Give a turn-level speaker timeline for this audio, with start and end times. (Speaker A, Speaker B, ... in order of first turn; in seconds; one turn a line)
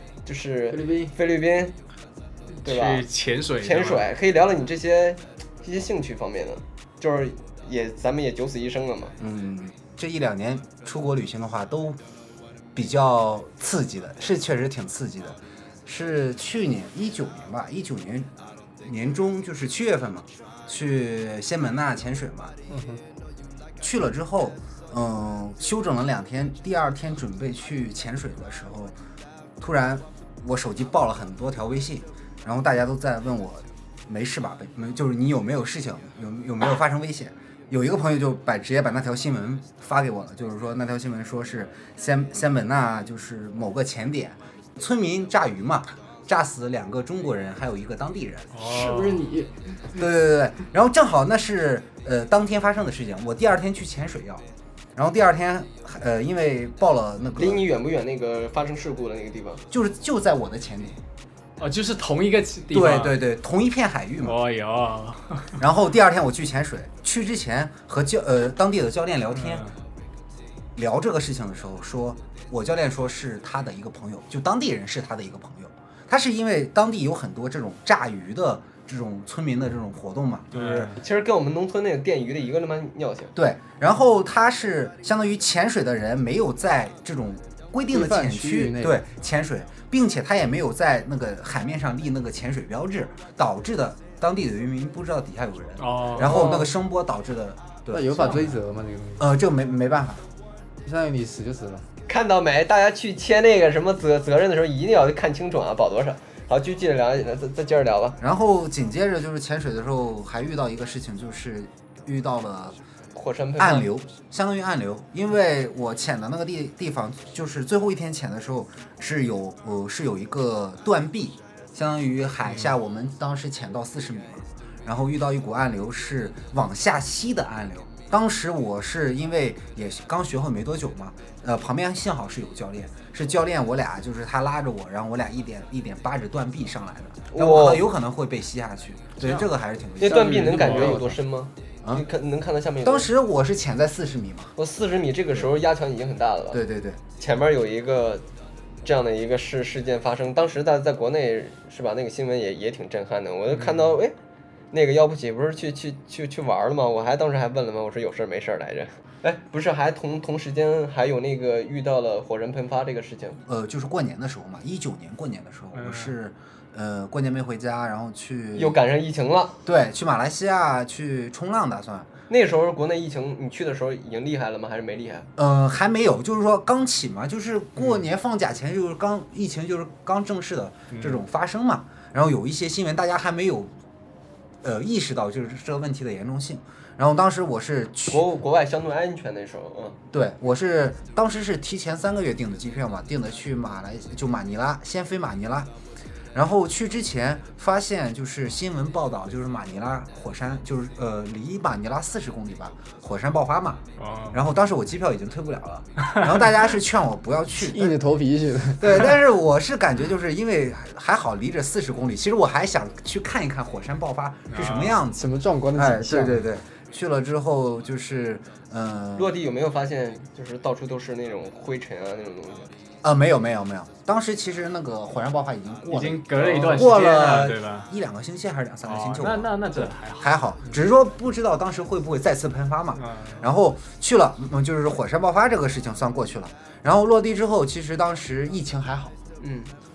Speaker A: 0.2-1.8
Speaker B: 0.7-1.1
Speaker C: 2.6-4.1
Speaker A: 2.6-3.1
Speaker A: 3.6-9.2
Speaker D: 9.2-12.0
Speaker D: 12.8-18.3
Speaker D: 18.8-22.5
Speaker B: 22.7-23.0
Speaker D: 23.8-28.9
Speaker D: 29.6-48.5
Speaker C: 48.5-49.3
Speaker B: 48.6-49.9
Speaker D: 50.0-54.4
Speaker D: 55.0-57.7
Speaker A: 57.4-59.6
Speaker D: 59.7-61.0
Speaker C: 61.6-63.1
Speaker D: 62.7-64.4
Speaker C: 64.2-65.6
Speaker D: 65.6-69.7
Speaker C: 69.4-69.7
Speaker D: 70.8-80.9
Speaker C: 80.5-81.0
Speaker A: 81.0-83.3
Speaker D: 83.3-98.1
Speaker B: 87.9-89.0
Speaker C: 95.8-96.7
Speaker A: 96.2-96.7
Speaker B: 97.9-99.3
Speaker C: 98.1-98.6
Speaker D: 99.2-100.2
Speaker B: 100.8-101.9
Speaker A: 102.1-108.2
Speaker D: 108.2-112.8
Speaker A: 113.1-113.9
Speaker D: 113.6-141.1
Speaker C: 122.5-122.7
Speaker A: 137.3-137.9
Speaker C: 139.2-139.5
Speaker A: 140.0-143.1
Speaker B: 140.1-141.1
Speaker C: 140.6-141.0
Speaker D: 142.8-144.5
Speaker A: 144.6-146.6
Speaker D: 146.5-147.0
Speaker A: 147.2-148.2
Speaker A: 148.8-154.2
Speaker C: 153.5-153.9
Speaker A: 154.7-163.4
Speaker D: 163.4-168.8
Speaker C: 165.7-166.2
Speaker A: 168.6-169.6
Speaker D: 169.6-172.1
Speaker A: 172.3-175.3
Speaker D: 175.4-183.7
Speaker C: 180.9-181.2
Speaker D: 184.6-188.2
Speaker A: 188.1-190.0
Speaker D: 190.1-195.7
Speaker D: 196.3-203.8
Speaker C: 204.0-204.4
Speaker D: 204.3-208.0
Speaker B: 207.6-209.1
Speaker D: 208.8-219.3
Speaker C: 214.5-215.0
Speaker B: 215.1-216.4
Speaker A: 219.2-222.7
Speaker D: 223.0-239.2
Speaker C: 225.9-227.9
Speaker A: 226.4-226.8
Speaker C: 228.8-230.8
Speaker C: 232.9-233.5
Speaker A: 239.4-239.7